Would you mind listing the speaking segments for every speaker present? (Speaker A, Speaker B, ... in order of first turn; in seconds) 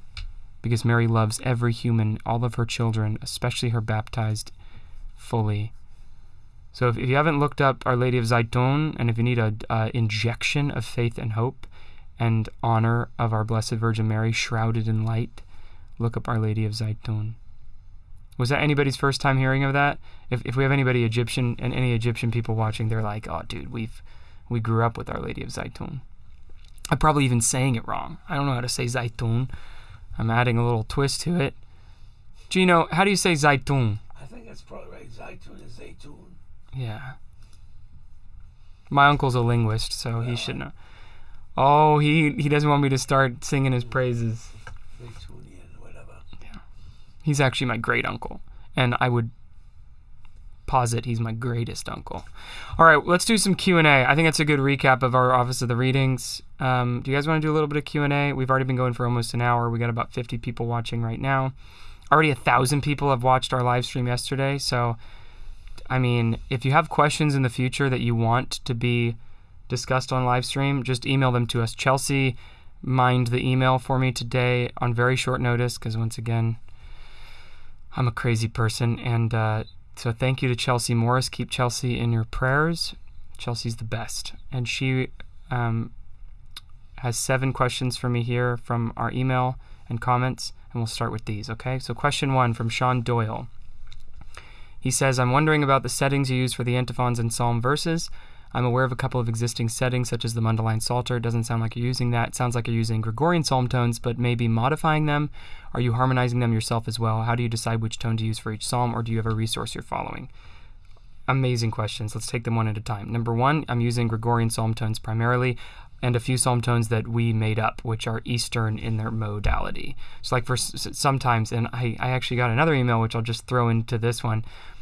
Speaker A: 0.6-4.5, 5.2-5.7, 6.7-15.4, 16.0-17.4, 18.4-26.0, 26.9-29.5, 30.2-31.6, 32.5-34.0, 36.8-37.2, 38.9-40.7, 41.6-44.5, 47.2-49.3, 50.7-61.5, 62.1-65.0, 65.9-69.2, 69.7-76.6, 77.9-85.9, 87.0-93.5, 94.8-110.3, 111.3-124.5
Speaker B: 34.1-36.4, 40.1-40.6, 45.0-46.2